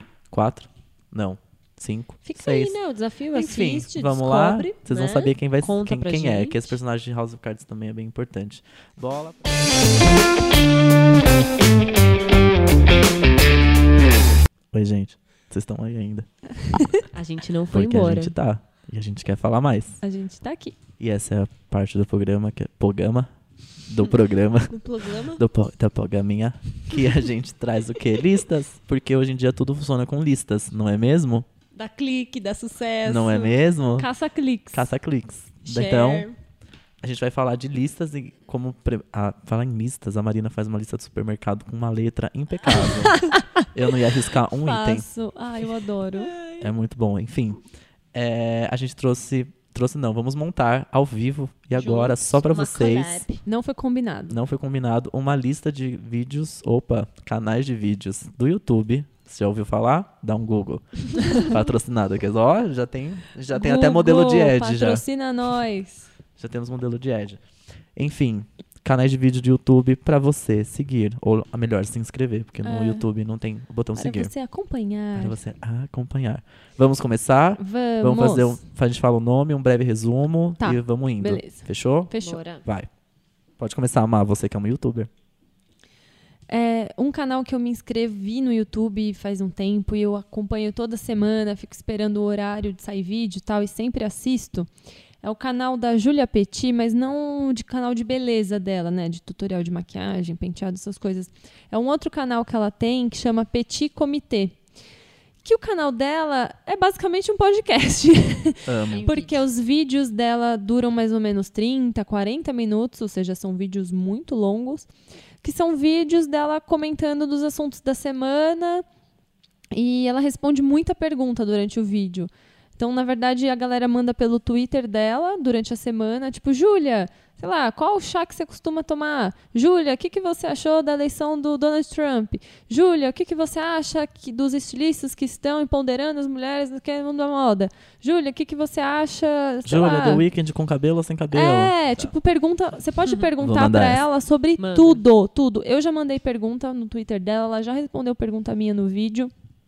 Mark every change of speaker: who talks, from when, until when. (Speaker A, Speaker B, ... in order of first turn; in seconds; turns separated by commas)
Speaker A: 0.3-2.8, Speaker B: 2.2-6.8, Speaker A: 3.3-9.6, Speaker A: 14.7-16.3, Speaker B: 17.1-18.3, Speaker A: 17.7-20.0, Speaker C: 20.0-20.8, Speaker A: 21.0-23.3, Speaker A: 23.8-31.4, Speaker B: 24.7-25.4, Speaker B: 31.7-33.5, Speaker A: 33.0-34.1, Speaker C: 34.0-34.9, Speaker A: 34.7-36.3, Speaker B: 35.6-36.4, Speaker A: 37.0-45.0, Speaker C: 42.7-43.6, Speaker C: 44.5-46.3, Speaker B: 46.1-46.7, Speaker A: 46.6-47.6, Speaker A: 48.1-53.2, Speaker B: 51.7-53.4, Speaker C: 53.4-54.4, Speaker A: 54.3-65.0, Speaker C: 63.5-66.1, Speaker A: 66.4-67.4, Speaker A: 68.0-74.3, Speaker C: 72.6-73.0, Speaker C: 74.0-75.4, Speaker A: 75.2-82.1, Speaker C: 77.6-78.6, Speaker C: 80.6-82.4, Speaker B: 82.2-82.6, Speaker A: 82.6-82.9, Speaker A: 83.6-85.1, Speaker C: 86.5-94.7, Speaker C: 95.2-104.5, Speaker C: 105.4-114.9, Speaker A: 108.7-109.1, Speaker B: 108.9-109.5, Speaker C: 115.4-118.8, Speaker C: 119.7-140.2, Speaker A: 139.6-142.1, Speaker C: 141.3-149.3, Speaker B: 143.0-143.3, Speaker A: 143.4-144.0, Speaker B: 144.6-145.0